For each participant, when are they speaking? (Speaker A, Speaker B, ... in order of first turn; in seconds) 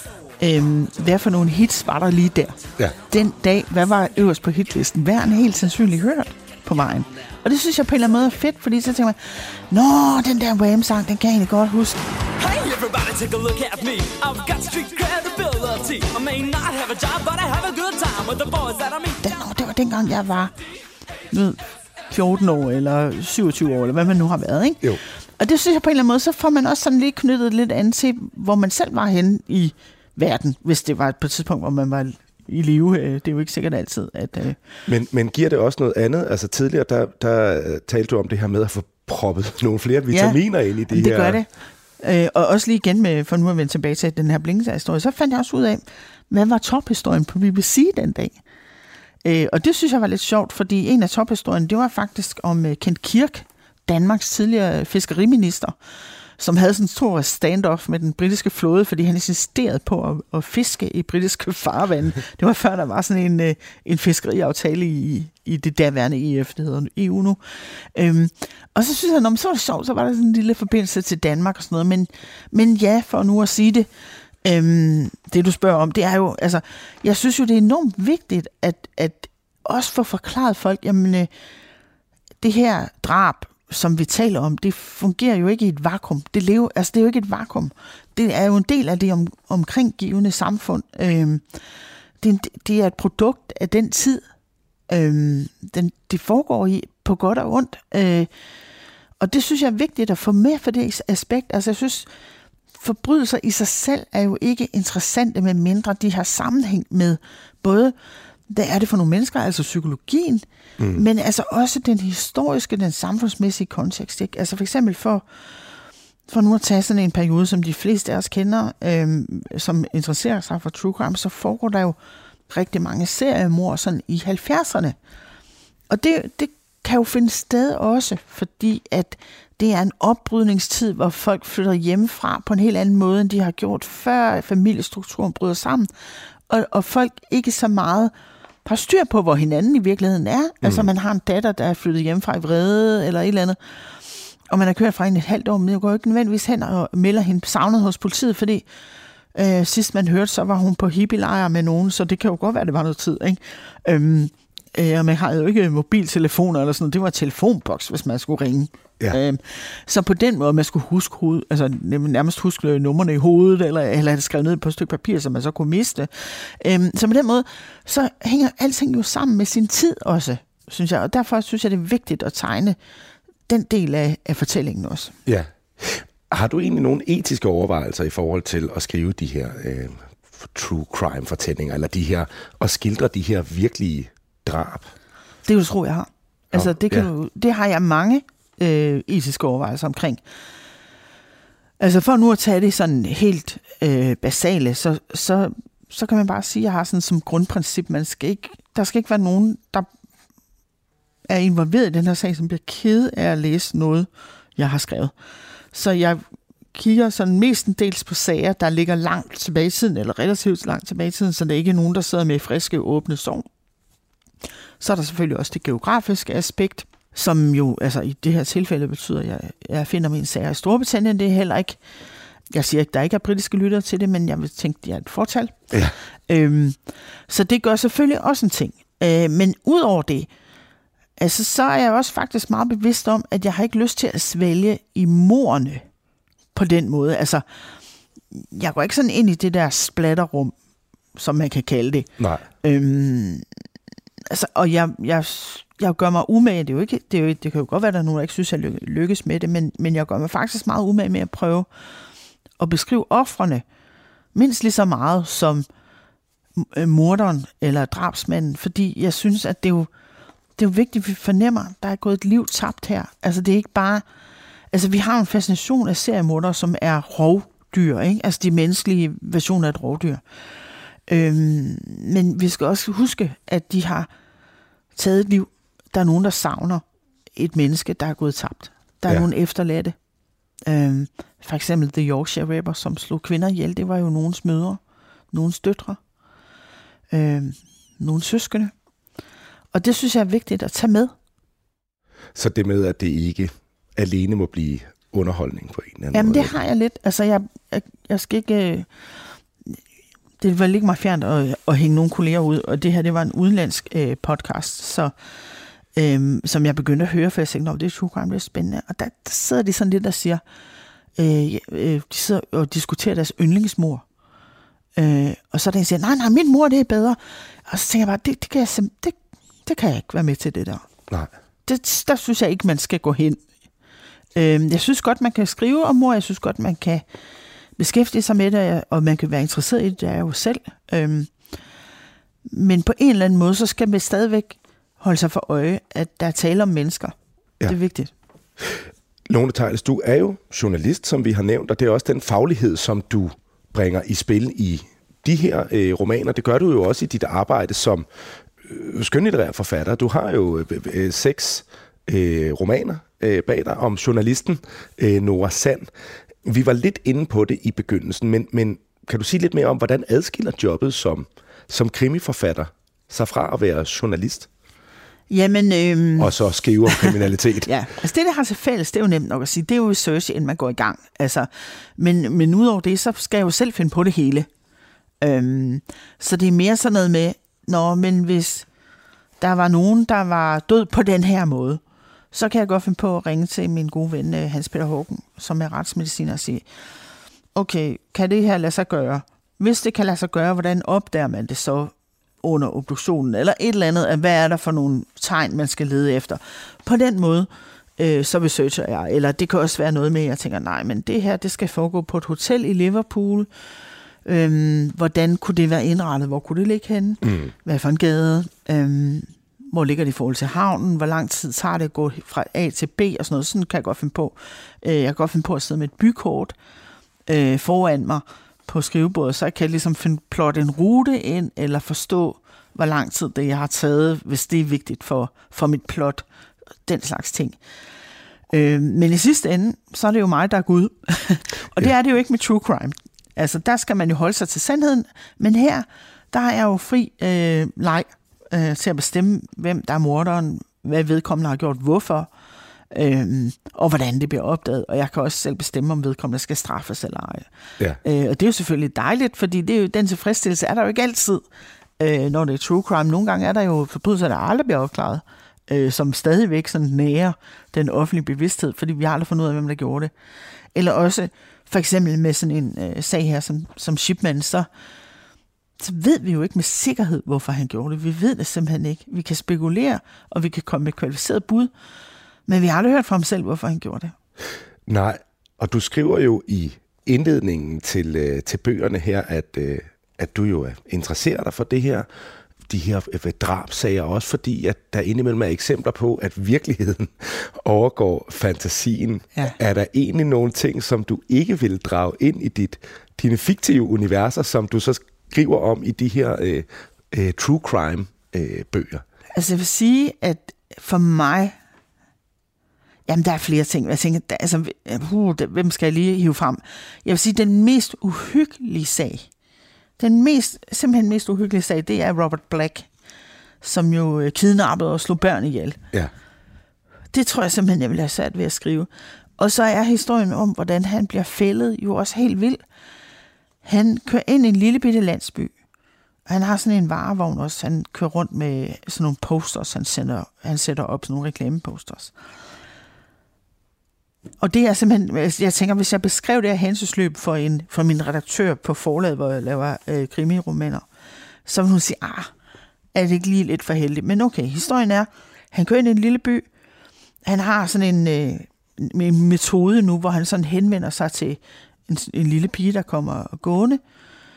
Speaker A: 0.4-12.0, 19.2-20.5, 21.3-24.8, 25.4-34.6, 40.1-40.4, 40.9-48.4, 49.2-55.8, 56.4-73.9, 74.4-81.3, 82.4-91.4, 92.2-94.2, 94.9-98.3, 99.2-102.1, 102.8-107.9, 108.5-115.2, 116.3-122.0, 122.5-125.0, 125.9-135.9, 136.5-138.1, 138.7-143.6, 144.5-148.7, 149.3-172.8, 173.5-175.2, 185.5-190.2, 191.8-199.9, 201.3-205.1, 205.7-213.4, 214.8-221.8, 222.5-225.7, 226.3-226.8, 227.3-230.3, 231.2-235.8, 236.5-237.4, 238.3-240.5, 241.2-242.1, 242.6-243.4, 244.3-251.7, 252.6-253.6, 254.3-255.7, 256.6-259.9, 260.6-264.0, 264.7-270.2, 271.1-274.1, 274.9-276.8, 277.4-280.0, 280.7-284.8, 285.3-286.0, 287.1-288.7, 289.7-291.1, 296.1-298.9, 300.4-305.1, 306.0-310.4, 311.2-314.0, 315.0-320.9, 321.7-323.4, 324.4-327.1, 327.8-331.3, 332.5-338.1, 365.3-366.4, 366.9-374.5, 375.2-378.7, 379.4-381.8, 382.3-386.7, 387.6-403.5, 404.2-416.6, 417.3-426.2, 426.9-427.6, 428.5-442.3, 442.9-447.5, 448.0-451.4, 452.0-460.1, 460.7-464.7, 465.8-471.7, 472.5-474.1, 499.4-501.6, 503.1-509.3, 510.0-512.9, 513.6-515.8, 517.1-522.6, 523.6-525.5, 526.3-532.1, 534.4-540.8, 541.5-542.3, 542.9-546.5, 547.2-553.8
Speaker B: 12.4-19.2
Speaker C: 34.9-41.4, 140.6-140.9, 175.3-184.9, 186.5-187.1, 242.2-242.4, 292.4-296.5, 338.6-348.1, 348.6-355.9, 356.4-364.5, 366.2-367.7, 407.2-407.5, 474.9-482.1, 482.7-499.0